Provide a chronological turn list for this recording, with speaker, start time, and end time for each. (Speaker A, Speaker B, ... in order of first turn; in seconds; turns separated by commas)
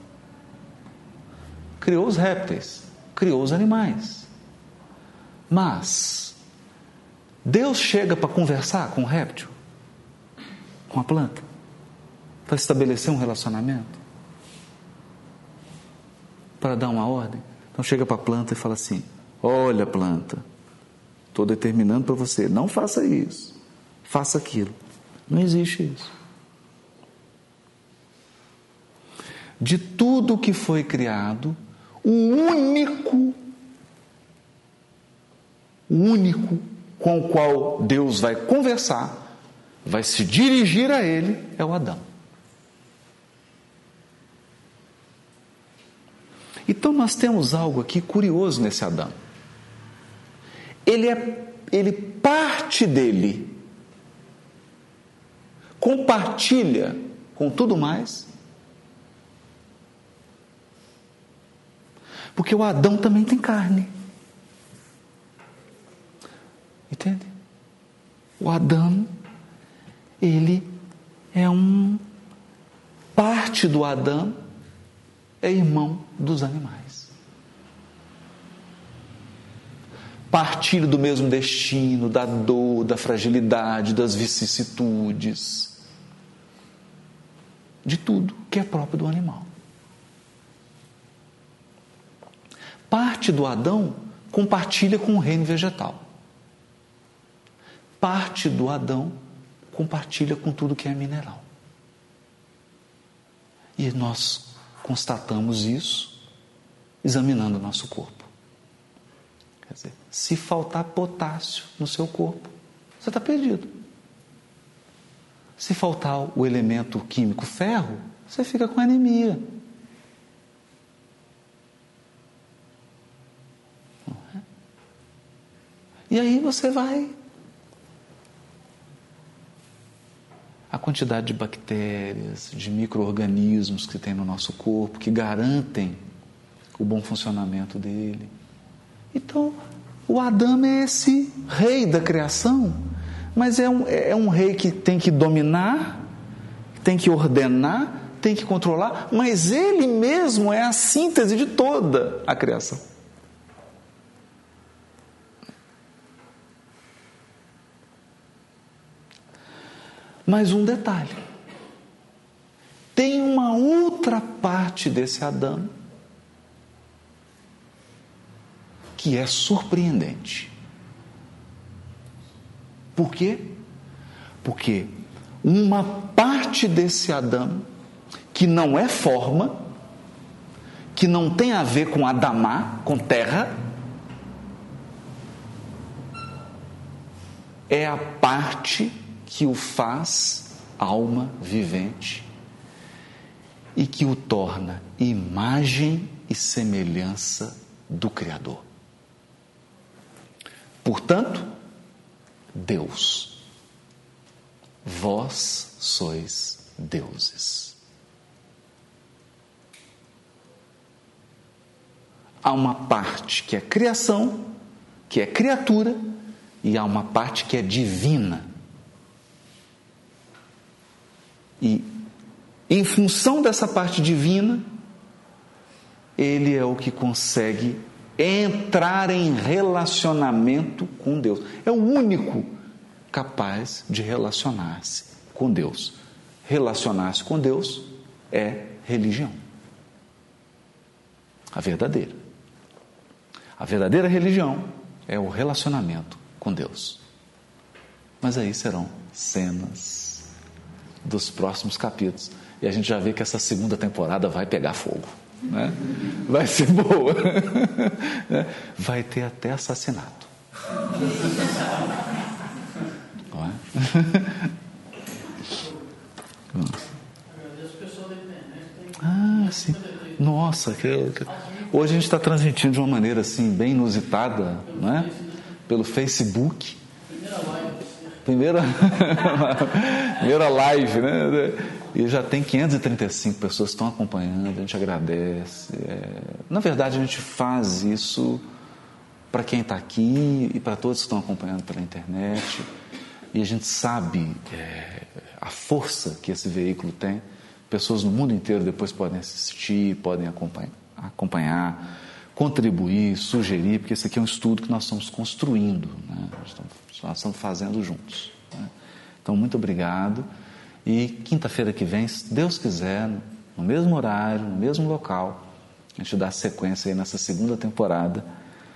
Speaker A: 1.8-4.3, Speaker A: 5.5-6.4, Speaker A: 7.4-9.5, Speaker A: 10.9-11.4, Speaker A: 12.5-14.0, Speaker A: 16.6-20.4, Speaker A: 21.3-23.5, Speaker A: 24.1-24.7, Speaker A: 25.3-26.1, Speaker A: 29.6-33.4, Speaker A: 35.9-39.2, Speaker A: 39.8-42.0, Speaker A: 46.6-49.1, Speaker A: 50.9-53.6, Speaker A: 55.8-58.3, Speaker A: 62.4-63.9, Speaker A: 66.9-67.3, Speaker A: 68.4-69.1, Speaker A: 70.2-70.7, Speaker A: 71.3-72.0, Speaker A: 73.2-74.4, Speaker A: 75.4-77.1, Speaker A: 80.3-85.8, Speaker A: 87.8-89.5, Speaker A: 92.9-96.0, Speaker A: 98.0-99.2, Speaker A: 99.7-101.4, Speaker A: 103.8-106.2, Speaker A: 107.0-108.3, Speaker A: 109.7-113.7, Speaker A: 115.6-119.5, Speaker A: 126.1-127.1, Speaker A: 130.7-136.0, Speaker A: 136.8-138.3, Speaker A: 139.1-146.1, Speaker A: 146.8-152.8, Speaker A: 160.3-161.2, Speaker A: 162.9-165.7, Speaker A: 169.0-170.5, Speaker A: 172.9-173.6, Speaker A: 174.4-177.7, Speaker A: 178.3-179.6, Speaker A: 180.9-183.6, Speaker A: 187.7-192.3, Speaker A: 193.8-198.6, Speaker A: 200.8-201.5, Speaker A: 202.5-203.4, Speaker A: 204.8-207.8, Speaker A: 212.4-214.5, Speaker A: 215.1-216.0, Speaker A: 216.6-218.5, Speaker A: 221.6-221.9, Speaker A: 222.7-224.7, Speaker A: 226.2-232.5, Speaker A: 233.1-239.4, Speaker A: 241.5-242.2, Speaker A: 243.6-247.0, Speaker A: 248.2-250.3, Speaker A: 251.0-260.3, Speaker A: 263.3-264.5, Speaker A: 266.5-266.8, Speaker A: 269.0-276.8, Speaker A: 278.2-288.4, Speaker A: 289.3-292.7, Speaker A: 293.3-308.7, Speaker A: 309.2-310.3, Speaker A: 310.8-315.4, Speaker A: 316.0-318.2